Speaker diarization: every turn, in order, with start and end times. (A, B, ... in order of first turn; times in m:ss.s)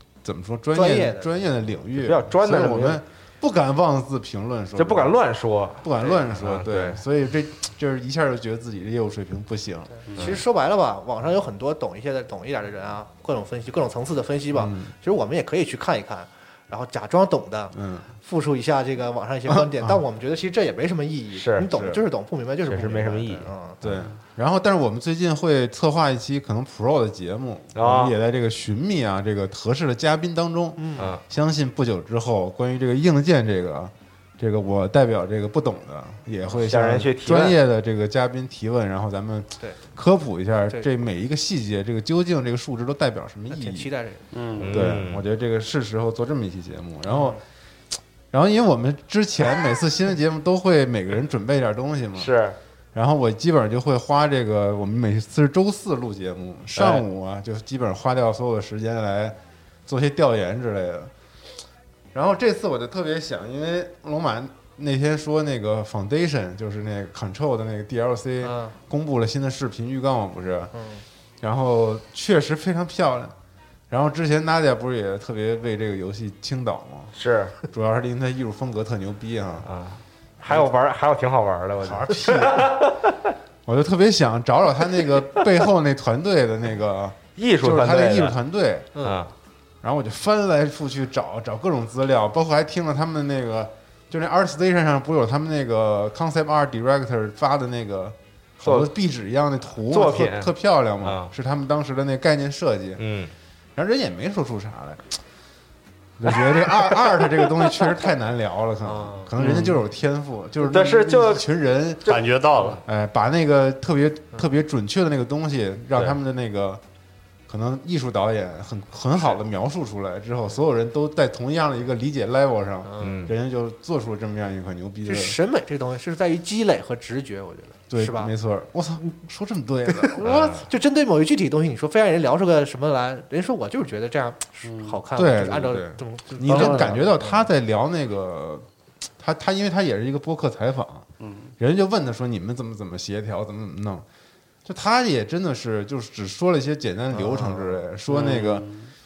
0:00.2-0:05.2 A
0:00.7-0:01.4 B
0:02.0-0:03.0 C
0:04.8-0:07.0 C
0:05.8-0:10.2 A
0:10.1-0:10.3 D
0:10.1-0:23.8 B
0:14.5-0:14.9 A
0:17.7-0:18.1 A
0:19.5-0:20.0 A
0:21.3-0:21.8 C
0:21.7-0:22.0 A
0:22.6-0:23.5 C
0:23.8-0:43.9 A
0:27.7-0:28.1 C
0:30.8-0:31.1 B
0:36.5-0:37.6 C
0:43.5-0:44.2 B
0:44.3-0:44.8 D
0:44.6-0:45.2 C
0:44.6-0:47.4 A
0:47.1-0:47.4 B
0:48.3-0:52.3 A
0:52.2-0:52.6 C
0:52.9-1:01.1 A
0:56.8-0:57.0 C
1:02.1-1:10.7 A
1:08.4-1:08.8 B
1:10.7-1:11.0 B
1:11.4-1:13.3 A
1:13.9-1:17.1 A
1:17.2-1:17.5 C
1:17.7-1:19.7 A
1:19.6-1:23.3 C
1:20.4-1:20.7 A
1:21.8-1:22.7 A
1:23.6-1:29.0 A
1:27.4-1:28.4 C
1:29.0-1:29.3 C
1:29.8-1:43.0 A
1:38.6-1:38.9 C
1:39.9-1:40.5 C
1:41.0-1:41.3 C
1:43.0-1:43.3 C
1:43.7-1:45.2 A
1:46.2-1:52.2 A
1:48.8-1:49.3 B
1:49.4-1:49.8 C
1:50.6-1:51.4 C
1:52.1-1:52.8 D
1:52.8-1:56.8 A
1:57.5-2:05.4 A
2:02.8-2:03.3 B
2:03.0-2:03.3 C
2:05.0-2:08.3 B
2:07.9-2:10.6 A
2:09.9-2:17.4 B
2:10.2-2:10.6 C
2:14.6-2:15.0 D
2:15.1-2:18.6 A
2:16.4-2:17.0 D
2:19.2-2:21.0 A
2:21.2-2:21.5 D
2:21.6-2:24.0 A
2:24.6-2:28.6 A
2:27.1-2:27.8 B
2:28.1-2:28.9 D